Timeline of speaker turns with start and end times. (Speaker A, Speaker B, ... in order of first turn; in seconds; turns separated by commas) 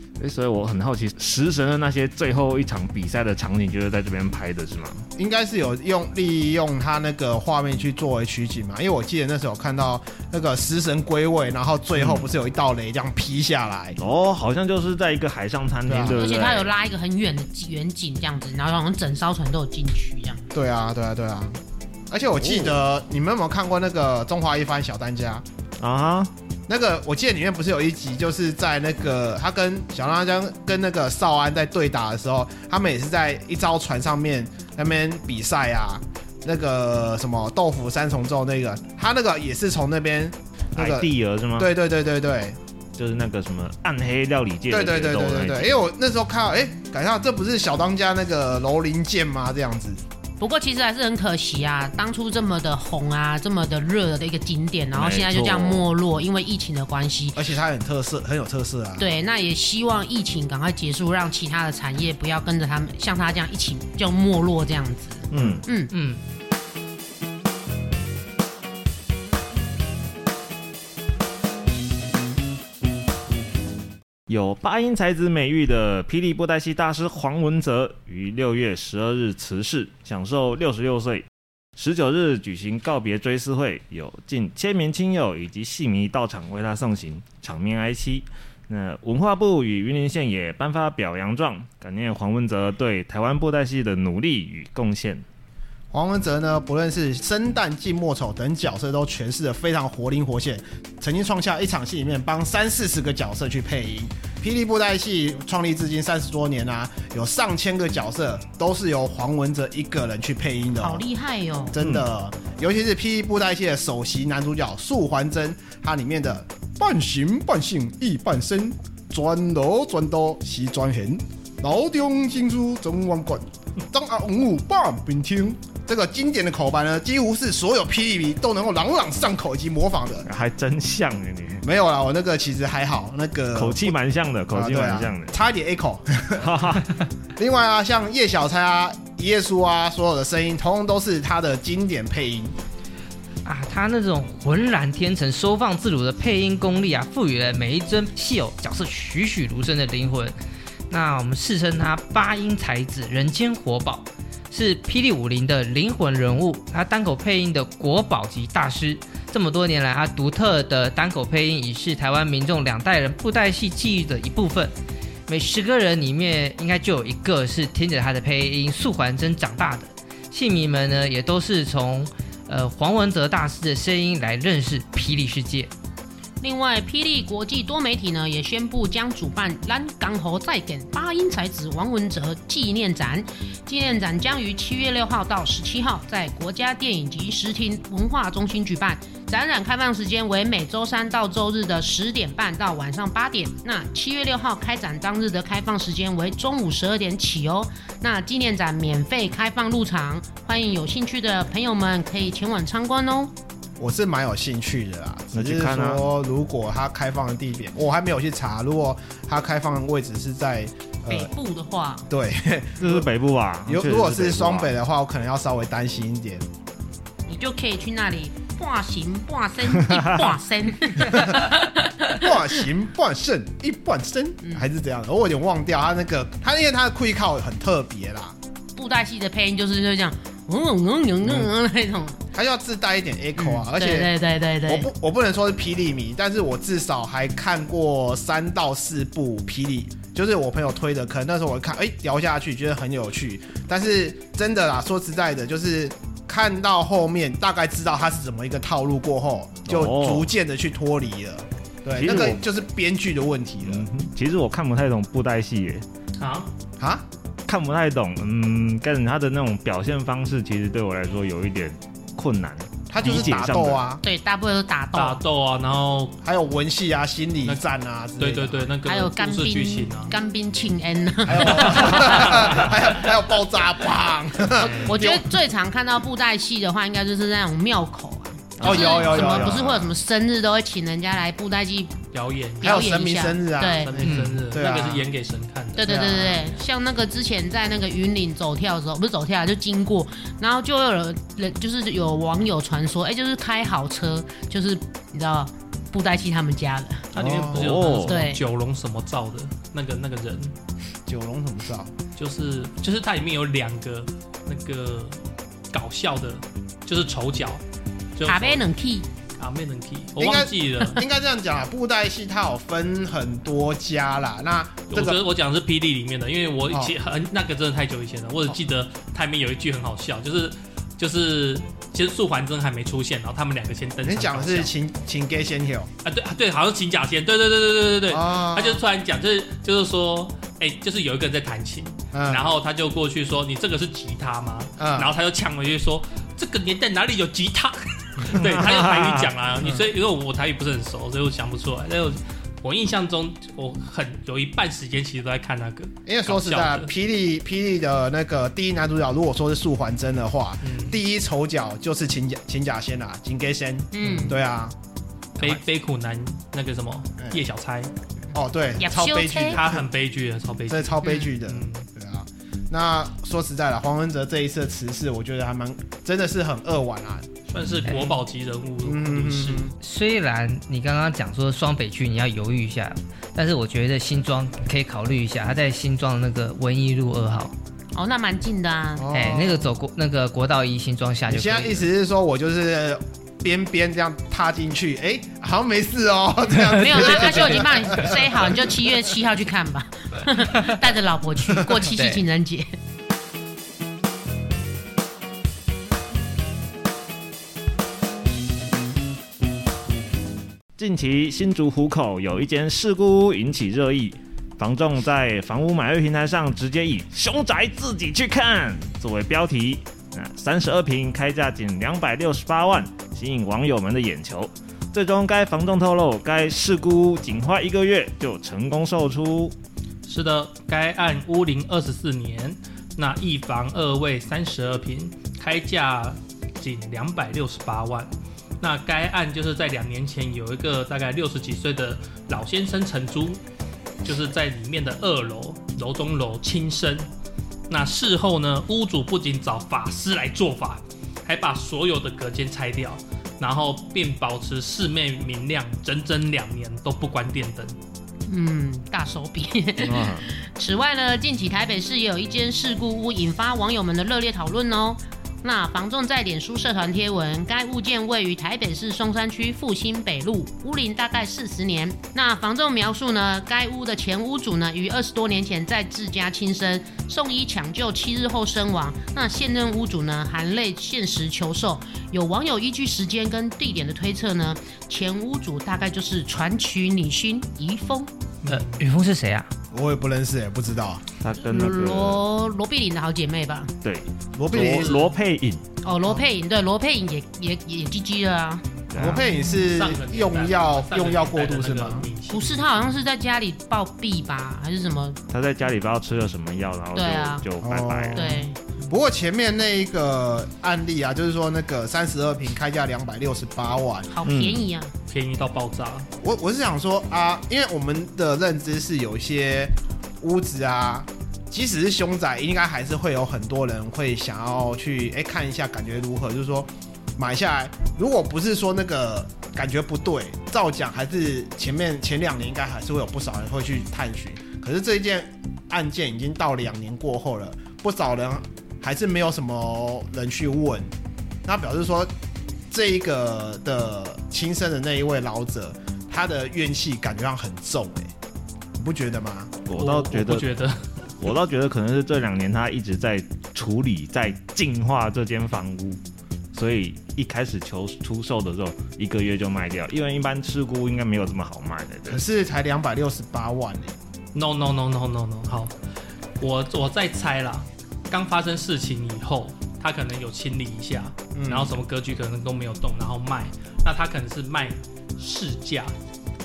Speaker A: 0.2-5.0, Speaker B: 5.2-14.0, Speaker A: 12.0-12.2, Speaker A: 14.0-16.7, Speaker B: 15.9-16.2, Speaker C: 16.2-20.4, Speaker B: 20.5-21.6, Speaker B: 22.1-25.4, Speaker A: 22.4-22.8, Speaker A: 25.8-26.3, Speaker B: 26.7-42.6, Speaker A: 40.8-41.7, Speaker A: 43.0-45.7, Speaker B: 44.7-50.0, Speaker C: 50.4-57.4, Speaker A: 55.0-55.9, Speaker B: 57.4-59.1, Speaker C: 59.0-65.9, Speaker A: 65.3-65.7, Speaker D: 65.9-66.2, Speaker A: 74.3-95.2, Speaker B: 95.9-111.1, Speaker C: 110.8-111.8, Speaker B: 111.7-130.3, Speaker A: 111.8-112.1, Speaker A: 130.3-131.6, Speaker B: 131.6-133.9, Speaker A: 133.6-135.3, Speaker B: 134.5-136.5, Speaker A: 136.4-137.0, Speaker B: 137.4-142.6, Speaker D: 143.4-150.3, Speaker D: 150.9-164.7, Speaker D: 165.3-175.7, Speaker C: 176.4-203.3, Speaker B: 203.8-211.3, Speaker A: 205.3-206.0, Speaker C: 211.1-212.1, Speaker B: 212.1-213.1, Speaker A: 212.8-214.7, Speaker B: 213.7-216.4, Speaker C: 217.3-222.3, Speaker A: 219.9-220.2, Speaker B: 221.0-221.6, Speaker B: 222.1-228.3, Speaker C: 228.8-232.2, Speaker B: 231.2-231.5, Speaker B: 232.3-234.1, Speaker C: 233.4-234.9, Speaker B: 234.7-253.9, Speaker A: 249.7-250.3, Speaker A: 252.0-252.4, Speaker A: 253.7-255.8, Speaker E: 256.2-256.5, Speaker B: 256.8-257.1, Speaker A: 257.5-263.8, Speaker B: 262.9-264.0, Speaker C: 264.0-265.2, Speaker E: 264.9-266.2, Speaker B: 266.2-268.7, Speaker E: 268.2-270.1, Speaker C: 268.9-272.7, Speaker B: 271.3-275.3, Speaker E: 274.6-275.0, Speaker C: 274.9-282.0, Speaker A: 278.6-279.7, Speaker B: 278.6-279.9, Speaker E: 282.1-282.9, Speaker C: 282.6-284.0, Speaker B: 282.6-285.1, Speaker E: 283.6-285.9, Speaker D: 284.1-284.4, Speaker C: 285.8-297.1, Speaker B: 285.8-286.5, Speaker E: 297.1-300.5, Speaker B: 297.1-297.8, Speaker A: 297.5-298.2, Speaker C: 298.1-298.4, Speaker B: 301.1-301.9, Speaker E: 302.2-305.2, Speaker E: 305.7-307.6, Speaker E: 308.2-308.7, Speaker C: 308.3-309.1, Speaker E: 309.4-311.0, Speaker B: 310.2-315.2, Speaker E: 314.9-324.7, Speaker B: 324.0-325.9, Speaker E: 326.0-346.9, Speaker B: 328.1-328.8, Speaker B: 332.1-332.4, Speaker B: 334.8-335.1, Speaker A: 338.3-339.3, Speaker B: 346.1-354.8, Speaker E: 350.6-351.0, Speaker C: 353.9-354.4, Speaker E: 354.0-354.3, Speaker E: 355.4-357.9, Speaker B: 358.3-359.9, Speaker C: 358.8-359.6, Speaker E: 359.5-361.9, Speaker B: 360.7-367.3, Speaker C: 361.0-361.3, Speaker E: 367.5-369.7, Speaker B: 368.8-369.7, Speaker D: 369.8-377.5, Speaker C: 377.9-379.1, Speaker B: 379.0-379.7, Speaker D: 379.1-381.9, Speaker B: 381.3-389.0, Speaker D: 386.5-388.1, Speaker C: 386.7-392.8, Speaker D: 390.4-390.7, Speaker D: 391.9-392.2, Speaker A: 400.8-419.5, Speaker E: 420.1-433.4, Speaker E: 434.0-437.1, Speaker E: 437.7-447.8, Speaker C: 448.3-478.1, Speaker A: 449.8-450.3, Speaker E: 478.4-478.8, Speaker D: 478.5-479.5, Speaker B: 479.7-481.1, Speaker A: 481.2-482.2, Speaker C: 481.4-483.8, Speaker A: 483.8-485.6, Speaker B: 484.4-485.0, Speaker E: 484.6-485.1, Speaker C: 485.8-489.6, Speaker A: 488.9-489.2, Speaker B: 488.9-492.1, Speaker E: 489.5-492.8, Speaker C: 492.3-495.2, Speaker A: 495.3-498.4, Speaker C: 496.9-497.4, Speaker B: 497.6-504.1, Speaker C: 498.1-498.6, Speaker C: 504.1-504.9, Speaker A: 504.2-504.7, Speaker E: 505.1-506.1, Speaker B: 506.2-530.9, Speaker B: 531.5-532.1, Speaker B: 532.7-538.1, Speaker B: 538.8-539.6, Speaker A: 539.7-540.5, Speaker E: 539.8-540.8, Speaker A: 541.2-546.0, Speaker A: 546.5-552.2, Speaker B: 552.1-554.0, Speaker E: 554.3-555.7, Speaker E: 556.4-565.9, Speaker B: 561.4-561.7